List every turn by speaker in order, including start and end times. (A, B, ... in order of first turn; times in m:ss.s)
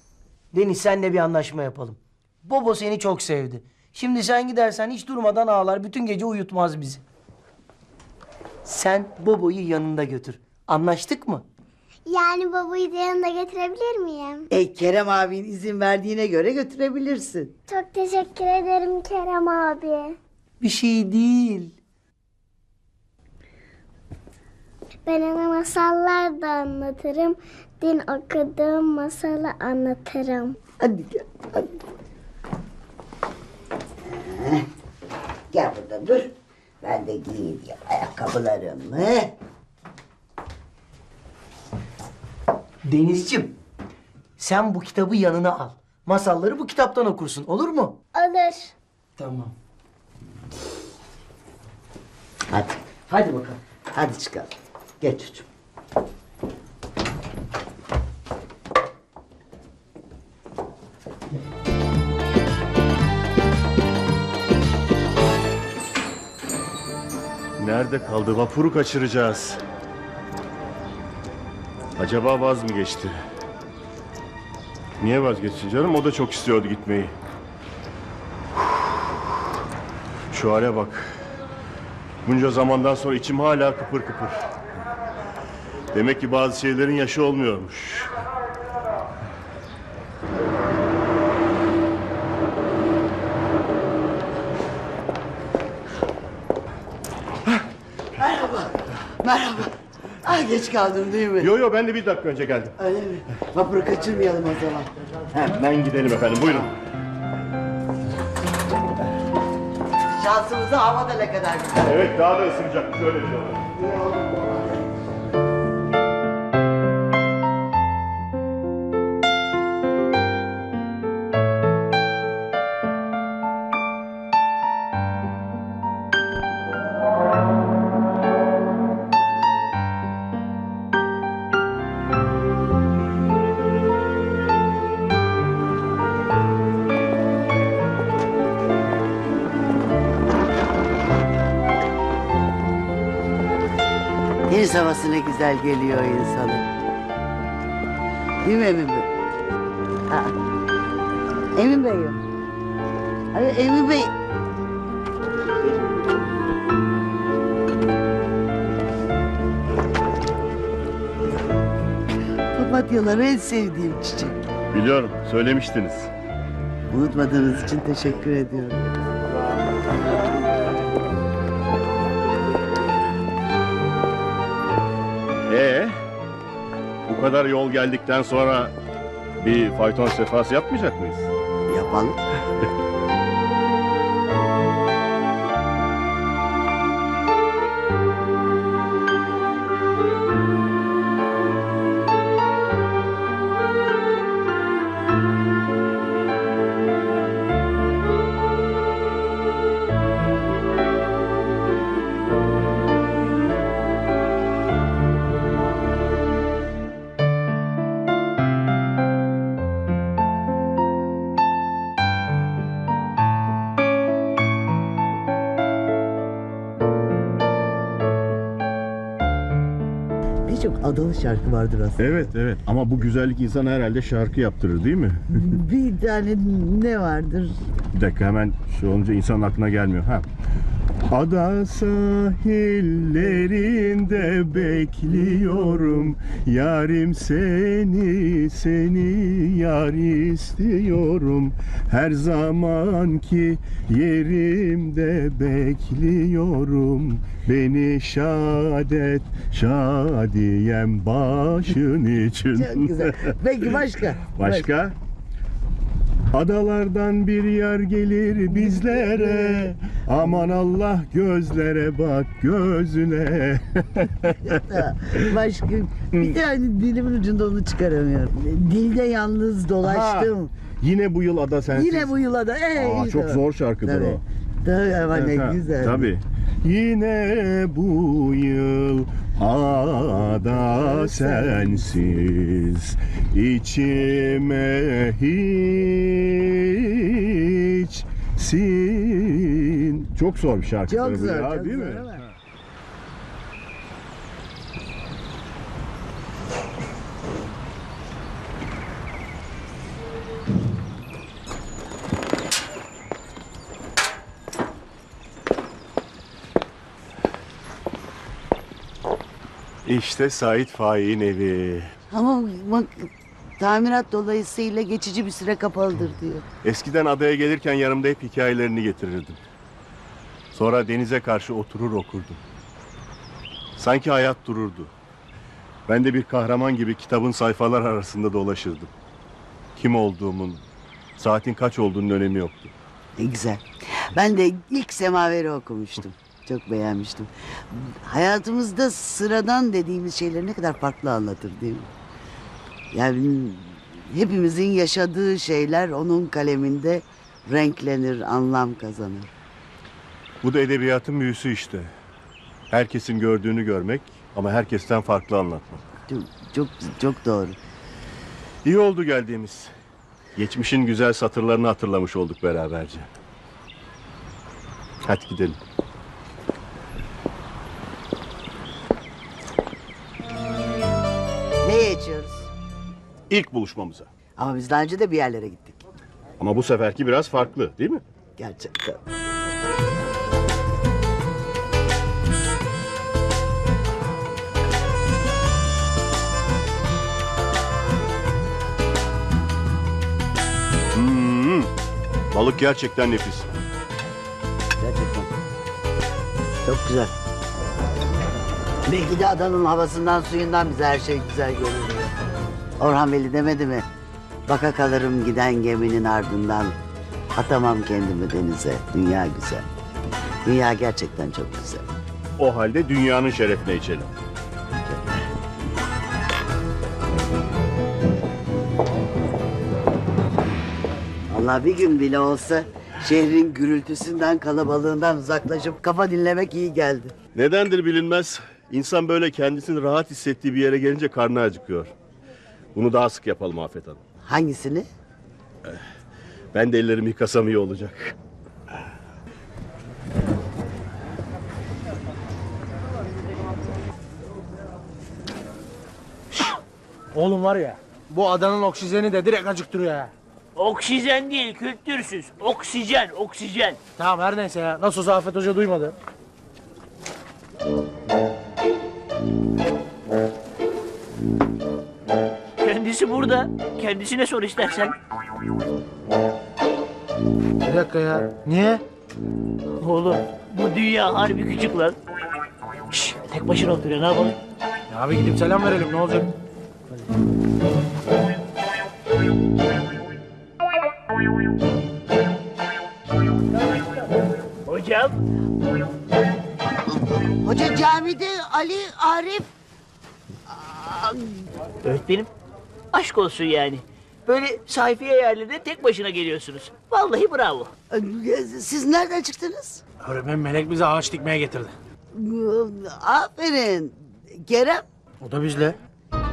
0:00.5-0:07.0 A
0:08.6-0:11.4 A
0:12.1-0:14.5 B
0:14.5-0:17.5 C
0:17.7-0:20.2 B
0:20.6-0:21.8 A
0:25.0-0:30.6 B
0:30.8-0:31.8 C
0:34.0-0:34.7 C
0:35.5-0:39.3 C
0:42.9-0:43.6 A
0:44.4-0:48.0 A
0:48.2-0:48.7 B
0:49.2-0:49.5 A
0:52.5-0:55.5 C
1:07.6-1:09.6 D
1:12.0-1:13.2 D
1:15.0-1:17.2 D
1:20.3-1:21.2 D
1:22.2-1:24.5 D
1:25.9-1:28.2 D
1:38.2-1:41.5 C
1:41.4-1:42.8 D
1:42.8-1:44.9 C
1:45.3-1:46.7 D
1:50.2-1:52.1 C
1:51.8-1:53.7 D
1:53.8-1:54.8 C
2:24.5-2:26.7 C
2:28.4-2:29.1 C
2:30.1-2:30.4 C
2:31.6-2:32.2 C
2:33.3-2:34.1 C
2:42.5-2:44.4 C
2:44.7-2:46.1 D
2:46.9-2:49.0 C
2:55.5-2:56.0 D
2:57.1-2:58.7 D
2:59.4-3:01.3 D
3:01.7-3:02.2 C
3:40.5-3:42.0 C
3:42.0-3:45.4 D
3:45.3-3:47.6 C
3:47.9-3:50.3 D
3:51.1-4:13.3 D
4:12.5-4:14.7 C
4:14.4-4:15.0 D
4:16.3-4:24.6 D
4:24.4-4:30.5 C
4:29.8-4:32.1 D
4:31.7-4:36.1 C
4:32.8-4:34.2 D
4:35.1-4:52.3 D
4:40.6-4:41.9 C
4:50.9-4:52.2 C
5:09.8-5:11.9 D
5:12.1-5:16.5 C
5:16.6-5:19.4 D
5:20.5-5:22.4 D
5:23.8-5:24.9 D
5:25.9-5:28.9 D
5:29.8-5:30.6 D
5:31.2-5:32.7 D
5:33.2-5:41.9 C
5:42.9-5:49.3 C
5:50.4-5:51.9 D
5:52.7-5:55.8 D
5:56.1-5:57.6 C
5:58.6-5:59.7 D
6:00.4-6:03.1 D
6:05.0-6:05.6 D
6:11.6-6:12.5 C
6:13.3-6:14.1 D
6:14.4-6:15.8 C
6:16.4-6:18.0 D
6:18.4-6:19.0 C
6:30.9-6:31.7 D
6:32.3-6:33.5 D
6:34.8-6:35.3 C
6:36.6-6:37.1 C
6:38.9-6:42.1 C
6:42.8-6:43.8 C
6:44.5-6:46.8 C
6:47.3-6:49.7 C
6:50.4-6:51.9 C
6:52.4-6:54.1 D
6:54.8-6:55.3 C
7:01.3-7:07.2 C
7:07.3-7:11.9 D
7:12.8-7:14.0 D
7:14.2-7:14.9 C
7:16.5-7:18.2 D
7:27.1-7:30.1 E
7:30.6-7:33.8 F
7:34.0-7:35.9 E
7:42.6-7:45.0 F
7:47.6-7:48.8 E
7:49.8-7:52.0 F
7:52.9-7:54.4 F
7:54.9-7:56.3 E
8:04.7-8:05.2 F
8:07.4-8:09.5 C
8:10.5-8:11.5 C
8:11.8-8:12.3 F
8:12.9-8:17.7 F
8:17.9-8:19.8 C
8:20.0-8:21.7 E
8:22.1-8:24.8 C
8:25.2-8:25.8 E